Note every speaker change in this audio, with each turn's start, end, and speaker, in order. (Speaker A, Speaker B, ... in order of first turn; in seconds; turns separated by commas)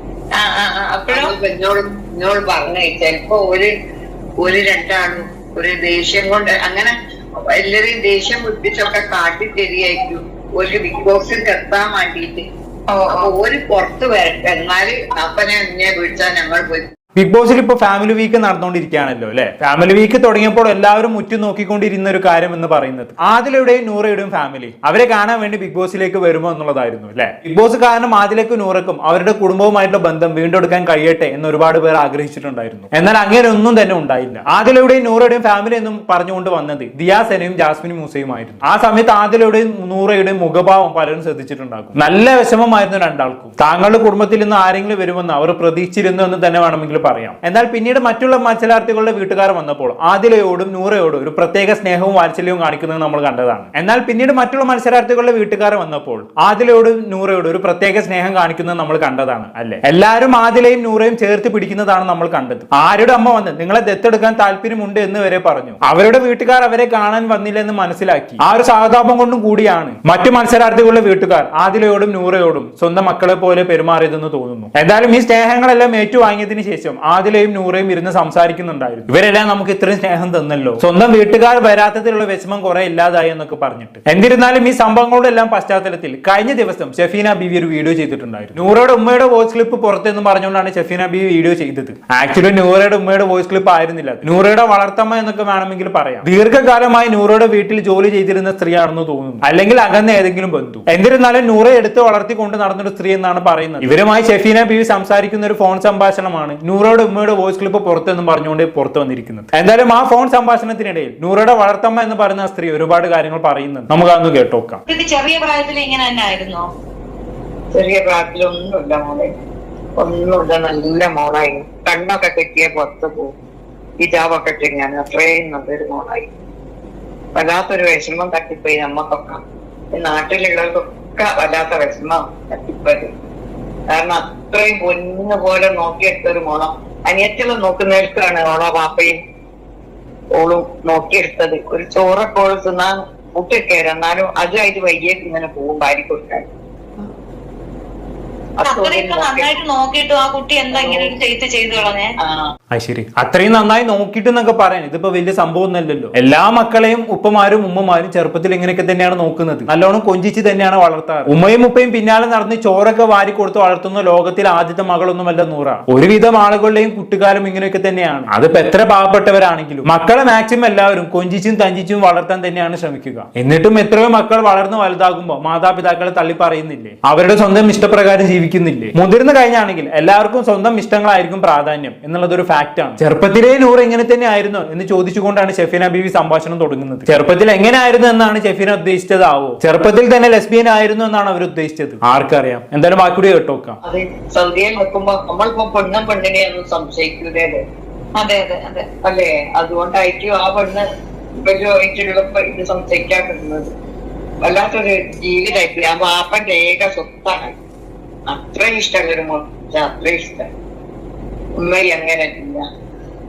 Speaker A: 0.4-1.3, Speaker B: 1.1-3.7, Speaker B: 4.4-6.9, Speaker B: 7.5-12.4, Speaker A: 12.9-13.3, Speaker B: 13.1-16.9, Speaker C: 17.2-114.8, Speaker A: 114.9-116.7, Speaker B: 117.7-119.3, Speaker B: 120.0-123.3, Speaker B: 124.0-126.3, Speaker B: 127.3-129.4, Speaker B: 129.9-133.1, Speaker B: 133.9-139.1, Speaker B: 140.3-146.5, Speaker B: 148.6-149.5, Speaker A: 148.6-152.1, Speaker B: 150.7-151.2, Speaker B: 152.2-152.5, Speaker C: 152.7-193.8, Speaker B: 193.8-197.6, Speaker A: 198.2-198.9, Speaker B: 199.0-200.8, Speaker B: 201.4-203.7, Speaker B: 204.4-207.6, Speaker B: 208.3-210.5, Speaker B: 211.6-212.7